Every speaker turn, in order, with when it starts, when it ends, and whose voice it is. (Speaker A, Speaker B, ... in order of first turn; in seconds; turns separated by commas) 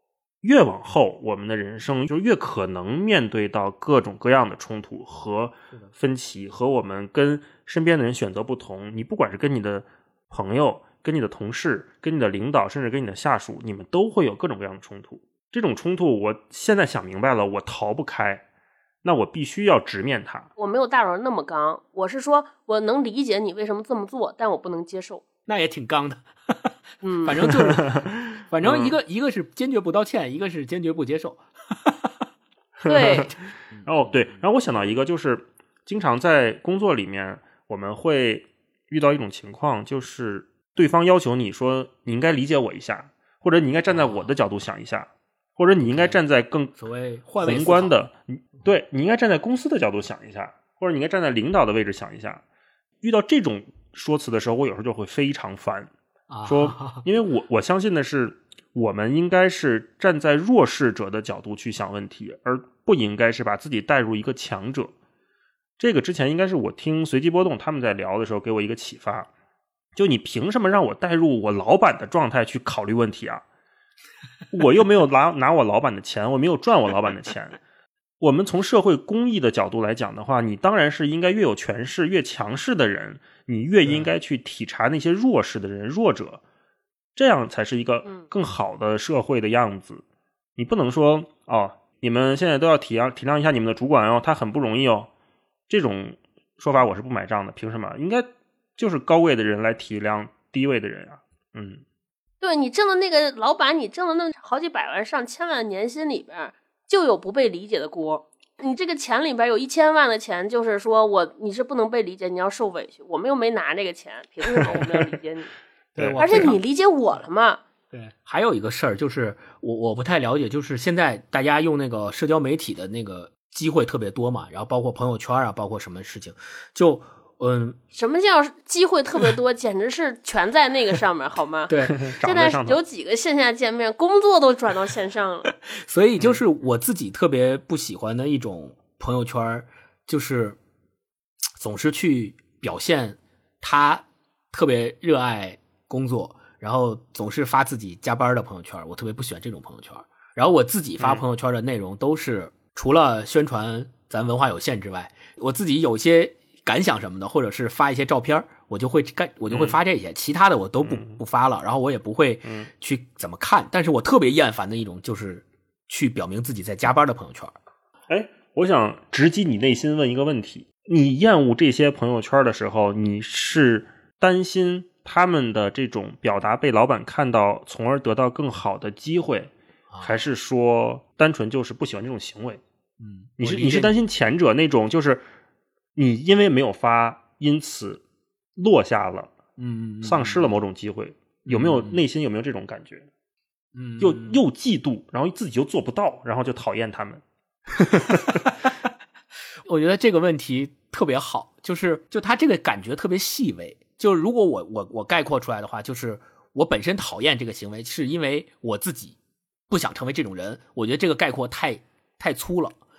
Speaker A: 0.4-18.4, Speaker A: 19.0-20.5, Speaker B: 20.6-25.2, Speaker C: 25.5-32.2, Speaker B: 27.0-27.4, Speaker A: 27.6-28.0, Speaker A: 28.6-29.0, Speaker A: 32.8-33.3, Speaker B: 32.9-33.3, Speaker C: 33.7-34.4, Speaker A: 33.9-46.7, Speaker C: 43.9-44.3, Speaker C: 45.8-46.2, Speaker C: 46.8-47.9, Speaker A: 47.4-52.4, Speaker A: 53.0-55.9, Speaker C: 56.3-57.0, Speaker A: 56.5-64.9, Speaker A: 65.8-69.3, Speaker A: 70.0-73.4, Speaker A: 74.5-77.6, Speaker A: 78.2-86.4, Speaker A: 87.2-90.0, Speaker A: 90.6-95.1, Speaker A: 95.7-101.8, Speaker B: 102.4-115.5, Speaker C: 116.0-116.6, Speaker A: 116.0-116.5, Speaker B: 116.2-117.6, Speaker C: 117.9-127.8, Speaker B: 127.9-135.5, Speaker C: 131.7-132.0, Speaker A: 132.0-132.8, Speaker C: 135.7-140.6, Speaker C: 141.6-167.5, Speaker A: 159.5-159.8, Speaker A: 160.8-161.2, Speaker A: 168.1-182.6, Speaker C: 179.9-180.2, Speaker C: 183.0-183.9, Speaker A: 183.4-185.2, Speaker A: 186.0-188.0, Speaker A: 188.6-189.3, Speaker C: 189.6-190.5, Speaker A: 190.0-193.1, Speaker C: 191.5-192.0, Speaker C: 193.8-194.4, Speaker A: 194.0-197.2, Speaker A: 197.7-198.5, Speaker C: 199.7-209.2, Speaker C: 209.7-212.8